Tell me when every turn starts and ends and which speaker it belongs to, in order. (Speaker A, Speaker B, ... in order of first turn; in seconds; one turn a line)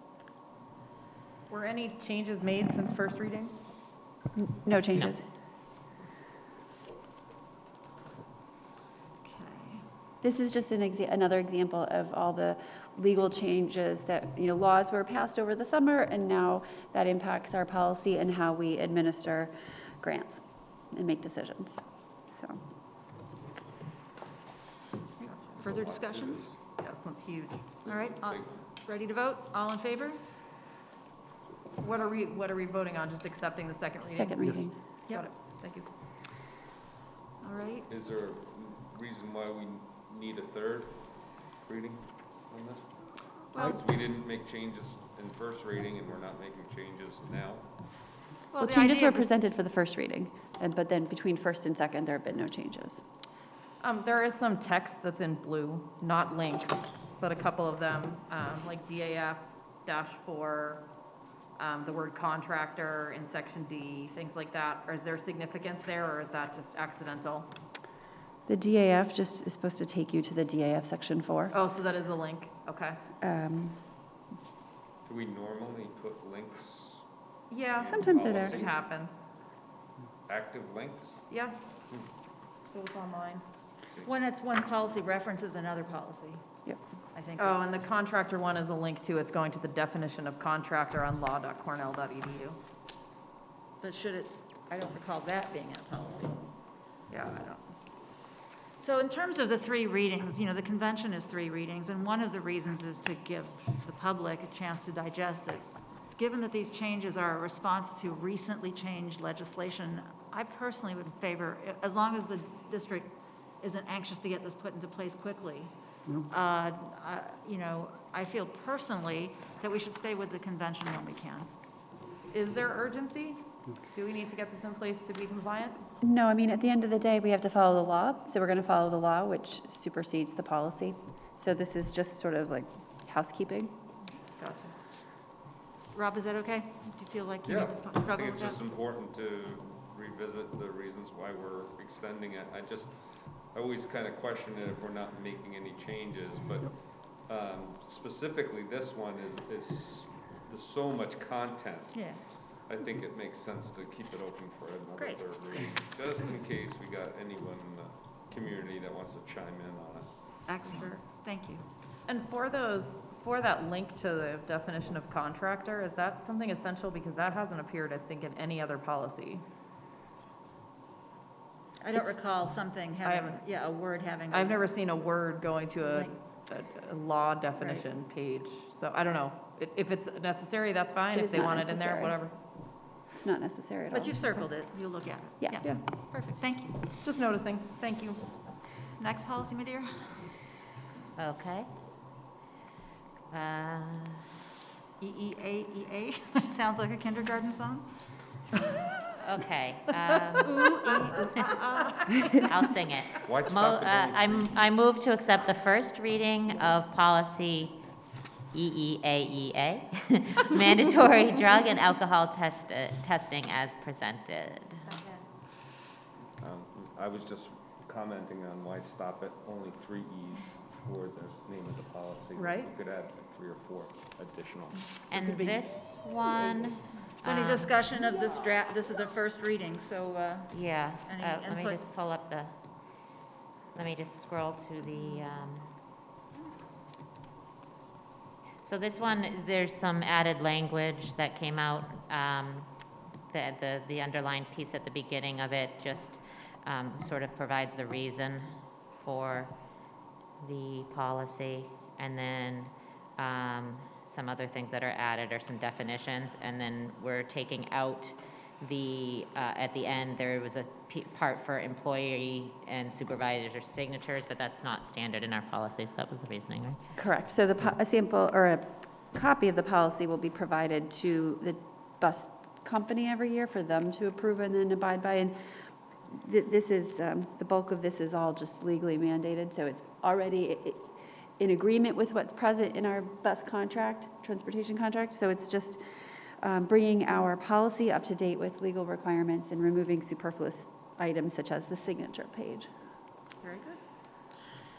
Speaker A: 1.5-3.5
Speaker B: 4.3-5.2
Speaker C: 9.2-9.8
Speaker B: 10.2-22.6
Speaker C: 25.2-26.5
Speaker D: 25.5-26.6
Speaker A: 26.8-27.9
Speaker D: 27.8-28.6
Speaker C: 27.9-30.2
Speaker A: 31.8-35.9
Speaker B: 34.0-34.8
Speaker C: 37.4-37.9
Speaker D: 37.9-47.7
Speaker C: 43.5-43.8
Speaker C: 48.5-49.3
Speaker B: 48.6-53.0
Speaker A: 53.8-60.9
Speaker A: 61.6-67.5
Speaker B: 68.5-71.5
Speaker A: 71.5-73.0
Speaker B: 73.2-73.8
Speaker D: 75.0-77.0
Speaker A: 77.5-79.3
Speaker D: 77.6-78.9
Speaker B: 77.9-78.6
Speaker D: 80.3-81.2
Speaker A: 81.3-81.5
Speaker A: 82.7-83.4
Speaker C: 84.0-86.4
Speaker C: 87.1-87.8
Speaker A: 87.4-92.6
Speaker C: 93.8-96.5
Speaker A: 97.1-97.6
Speaker C: 98.8-115.7
Speaker C: 116.3-121.5
Speaker A: 122.3-125.8
Speaker B: 126.0-133.8
Speaker A: 134.4-134.7
Speaker C: 135.9-138.6
Speaker D: 137.4-160.1
Speaker C: 151.9-152.2
Speaker C: 154.9-155.4
Speaker C: 160.5-161.6
Speaker D: 160.6-160.9
Speaker A: 162.1-169.4
Speaker C: 171.8-174.7
Speaker A: 173.0-173.4
Speaker A: 174.3-182.3
Speaker C: 175.8-176.1
Speaker B: 181.1-182.2
Speaker B: 183.0-184.3
Speaker C: 183.9-186.9
Speaker B: 185.4-185.7
Speaker A: 185.6-186.4
Speaker A: 186.9-188.3
Speaker C: 188.9-190.4
Speaker E: 191.2-191.7
Speaker E: 193.3-194.2
Speaker C: 195.0-197.9
Speaker E: 199.2-200.6
Speaker C: 200.4-202.4
Speaker E: 201.3-207.8
Speaker D: 203.2-204.6
Speaker E: 208.5-215.0
Speaker D: 216.4-224.9
Speaker A: 222.3-222.7
Speaker E: 225.1-227.7
Speaker C: 227.2-232.1
Speaker E: 230.5-232.5
Speaker E: 233.7-235.7
Speaker E: 238.6-242.7
Speaker E: 243.3-249.5
Speaker E: 250.4-266.8
Speaker B: 266.9-275.4
Speaker B: 276.1-285.8
Speaker B: 286.4-292.7
Speaker A: 293.4-293.8